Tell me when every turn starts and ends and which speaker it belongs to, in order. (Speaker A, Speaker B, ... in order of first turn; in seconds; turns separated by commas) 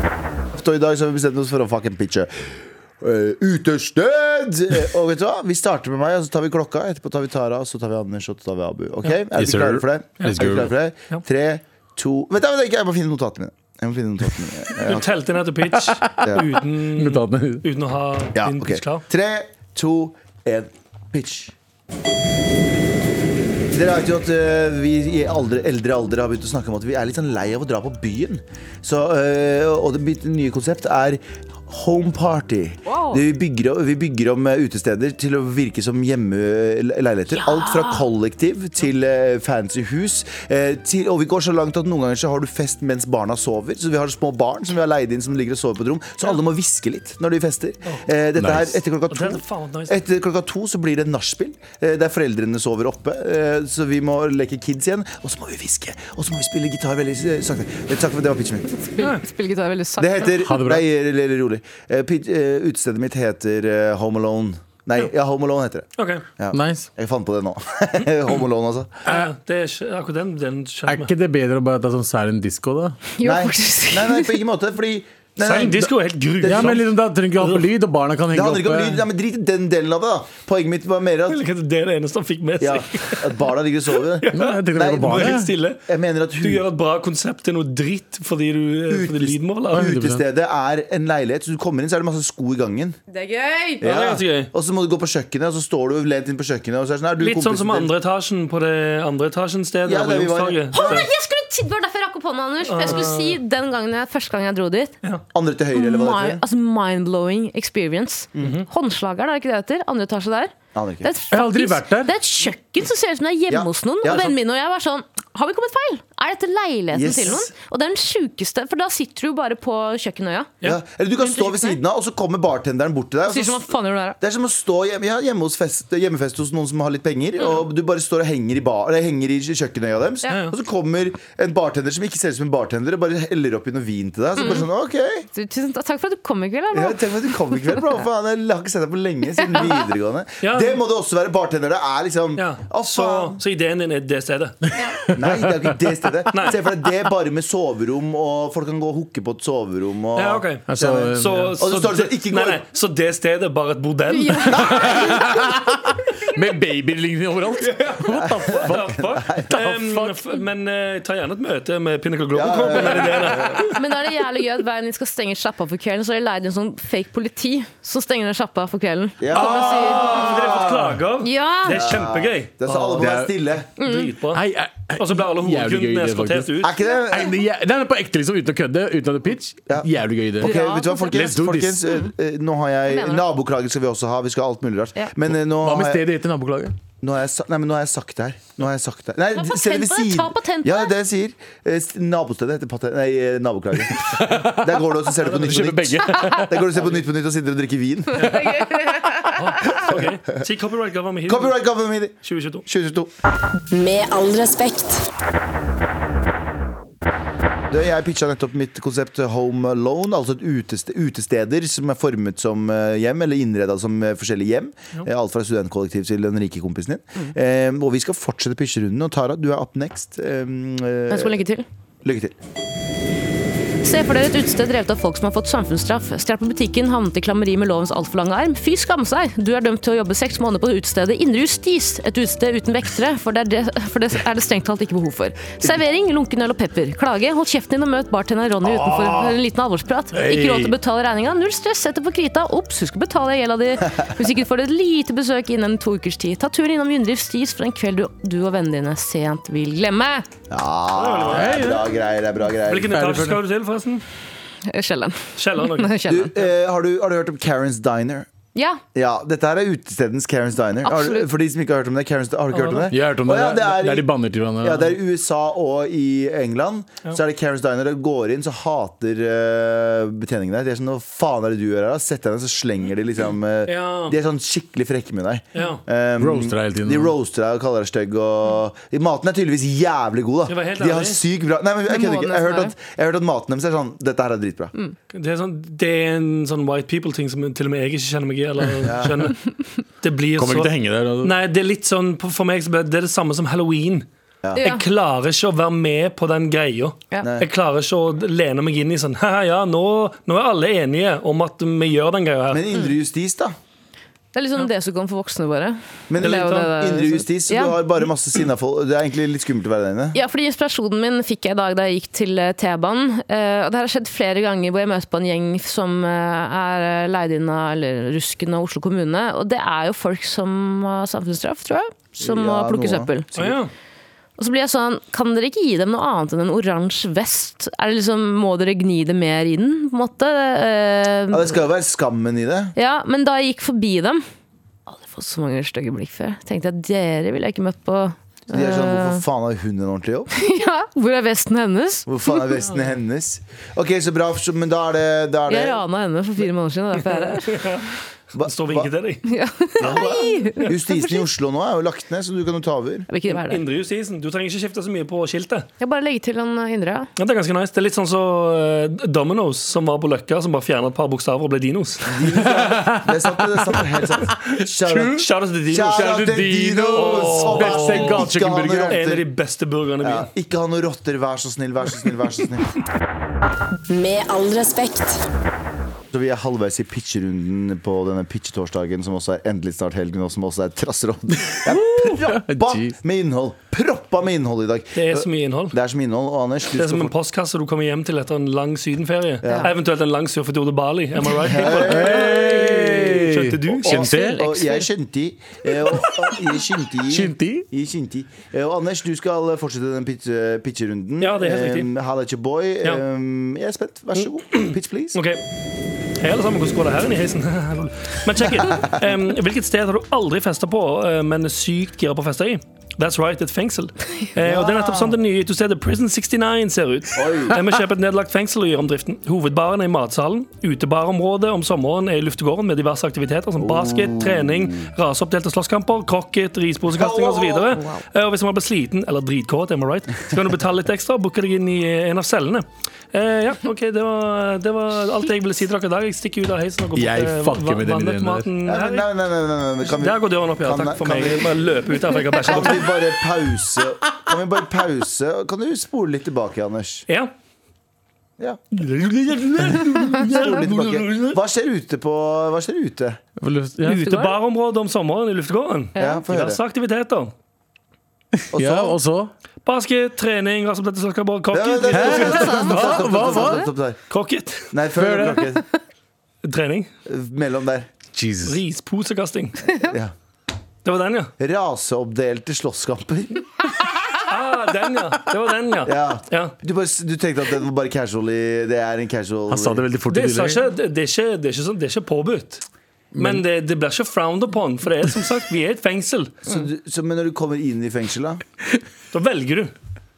Speaker A: 0.5-2.3, Speaker A: 3.0-15.1, Speaker B: 9.3-10.7, Speaker C: 14.8-19.0, Speaker B: 15.7-17.7, Speaker A: 18.4-21.5, Speaker A: 23.7-58.8, Speaker D: 32.9-33.2, Speaker D: 37.3-38.0, Speaker B: 48.4-48.8, Speaker C: 49.1-50.0, Speaker D: 58.7-60.4, Speaker A: 60.0-69.0, Speaker B: 60.4-60.9, Speaker C: 66.0-66.3, Speaker B: 66.5-66.9, Speaker C: 69.1-71.1, Speaker B: 70.9-73.0, Speaker D: 73.2-74.4, Speaker A: 73.2-75.9, Speaker C: 75.4-76.8, Speaker A: 76.4-76.8, Speaker B: 76.4-79.0, Speaker A: 78.3-81.4, Speaker C: 81.3-83.3, Speaker A: 82.6-86.7, Speaker C: 84.2-85.8, Speaker B: 84.3-85.5, Speaker C: 86.4-89.8, Speaker A: 88.9-93.0, Speaker B: 89.7-90.2, Speaker D: 93.1-93.9, Speaker A: 93.8-97.9, Speaker C: 93.8-94.5, Speaker C: 97.2-101.1, Speaker A: 99.9-101.0, Speaker D: 100.7-105.0, Speaker C: 102.7-103.4, Speaker A: 105.3-106.4, Speaker D: 105.7-120.5, Speaker A: 108.3-108.6, Speaker A: 110.7-111.1, Speaker B: 111.3-112.1, Speaker A: 113.5-114.3, Speaker A: 116.9-117.5, Speaker A: 120.6-135.2, Speaker D: 121.2-121.8, Speaker D: 123.3-124.2, Speaker C: 130.3-130.5, Speaker D: 134.4-134.7, Speaker D: 135.3-137.7, Speaker A: 136.7-143.4, Speaker D: 139.4-139.8, Speaker C: 140.4-140.8, Speaker C: 142.4-144.6, Speaker B: 145.1-145.4, Speaker A: 145.1-152.6, Speaker C: 146.3-146.6, Speaker C: 150.2-150.7, Speaker B: 150.7-151.6, Speaker C: 151.2-154.7, Speaker D: 154.1-155.2, Speaker A: 154.5-155.0, Speaker B: 154.7-158.9, Speaker C: 157.7-163.7, Speaker A: 158.2-159.6, Speaker B: 159.5-160.2, Speaker A: 162.3-163.7, Speaker D: 163.6-170.3, Speaker A: 169.2-171.0, Speaker C: 169.3-173.1, Speaker D: 171.2-171.8, Speaker A: 171.7-173.7, Speaker B: 173.0-173.3, Speaker C: 173.8-174.4, Speaker D: 173.8-174.1, Speaker B: 174.3-176.6, Speaker C: 175.0-176.7, Speaker A: 176.6-177.3, Speaker B: 177.1-181.8, Speaker A: 179.7-186.0, Speaker D: 180.4-181.2, Speaker D: 182.9-183.3, Speaker B: 185.6-186.8, Speaker A: 187.0-198.3, Speaker D: 189.3-190.9, Speaker B: 194.0-194.8, Speaker C: 195.2-195.7, Speaker B: 195.4-196.7, Speaker D: 198.2-199.3, Speaker B: 198.3-198.9, Speaker C: 199.3-201.6, Speaker A: 201.3-202.2, Speaker C: 202.2-202.7, Speaker A: 202.7-203.1, Speaker E: 203.7-205.1, Speaker A: 207.7-221.4, Speaker D: 221.1-221.7, Speaker A: 222.0-222.4, Speaker D: 223.8-250.3, Speaker B: 238.7-239.3, Speaker B: 240.1-240.8, Speaker A: 250.5-253.0, Speaker C: 250.9-251.7, Speaker B: 251.3-251.8, Speaker C: 252.7-254.0, Speaker B: 252.9-253.4, Speaker D: 254.7-256.4, Speaker C: 255.4-255.9, Speaker A: 256.1-258.3, Speaker D: 258.6-258.8, Speaker A: 258.9-264.1, Speaker D: 260.8-261.3, Speaker C: 262.5-262.9, Speaker B: 262.9-264.9, Speaker A: 264.6-284.7, Speaker C: 273.7-274.2, Speaker C: 275.6-275.8, Speaker B: 276.2-277.1, Speaker C: 280.5-281.2, Speaker D: 281.9-282.7, Speaker C: 285.1-289.4, Speaker A: 288.8-289.3, Speaker C: 290.0-290.7, Speaker B: 290.4-291.3, Speaker C: 291.2-294.1, Speaker D: 294.6-294.8, Speaker C: 294.6-302.7, Speaker A: 297.2-297.5, Speaker A: 302.5-303.6, Speaker D: 304.3-307.8, Speaker A: 306.1-310.2, Speaker C: 306.2-306.7, Speaker D: 310.1-323.4, Speaker A: 322.2-323.5, Speaker C: 323.4-323.7, Speaker D: 324.4-331.6, Speaker A: 331.3-332.7, Speaker D: 332.8-334.2, Speaker D: 334.9-339.2, Speaker A: 338.5-340.3, Speaker D: 340.3-342.5, Speaker A: 342.1-345.8, Speaker D: 345.5-347.7, Speaker C: 347.3-347.9, Speaker A: 348.3-348.9, Speaker C: 348.4-349.2, Speaker D: 349.2-351.2, Speaker A: 349.8-353.1, Speaker D: 353.1-353.6, Speaker C: 353.3-355.7, Speaker D: 355.8-357.1, Speaker C: 357.2-362.1, Speaker A: 362.1-369.2, Speaker B: 362.4-363.1, Speaker B: 364.9-365.2, Speaker C: 365.2-366.3, Speaker B: 365.8-369.0, Speaker C: 366.9-370.3, Speaker A: 370.0-372.7, Speaker E: 373.9-375.2, Speaker A: 376.1-387.1, Speaker B: 381.7-382.9, Speaker C: 384.9-385.8, Speaker C: 386.7-393.9, Speaker A: 389.4-389.7, Speaker D: 389.4-389.7, Speaker A: 391.4-392.7, Speaker B: 391.9-394.4, Speaker A: 393.8-405.2, Speaker D: 393.9-394.9, Speaker B: 397.1-397.7, Speaker C: 401.2-401.9, Speaker C: 404.2-405.4, Speaker C: 406.2-439.1, Speaker A: 414.4-415.2, Speaker A: 417.2-417.6, Speaker A: 423.6-424.9, Speaker A: 426.9-427.8, Speaker B: 436.9-438.5, Speaker A: 438.7-441.7, Speaker C: 439.8-442.9, Speaker A: 442.4-447.1, Speaker C: 448.7-451.4, Speaker A: 450.4-453.2, Speaker B: 453.4-454.1, Speaker C: 453.9-457.3, Speaker D: 453.9-454.4, Speaker D: 456.0-456.2, Speaker A: 456.0-456.6, Speaker B: 458.4-459.3, Speaker A: 458.5-459.0, Speaker C: 459.7-463.2, Speaker A: 461.5-464.0, Speaker B: 461.9-463.7, Speaker C: 464.1-464.7, Speaker A: 464.7-465.6, Speaker B: 465.0-465.5, Speaker C: 466.4-466.9, Speaker A: 467.1-467.9, Speaker B: 468.1-468.6, Speaker C: 468.5-469.6, Speaker A: 469.8-470.1, Speaker C: 470.9-471.3, Speaker A: 471.4-473.4, Speaker C: 474.2-476.5, Speaker A: 475.9-479.9, Speaker B: 479.5-480.6, Speaker C: 480.1-482.6, Speaker B: 483.1-483.4, Speaker C: 483.2-486.5, Speaker A: 486.5-488.4, Speaker C: 489.1-489.7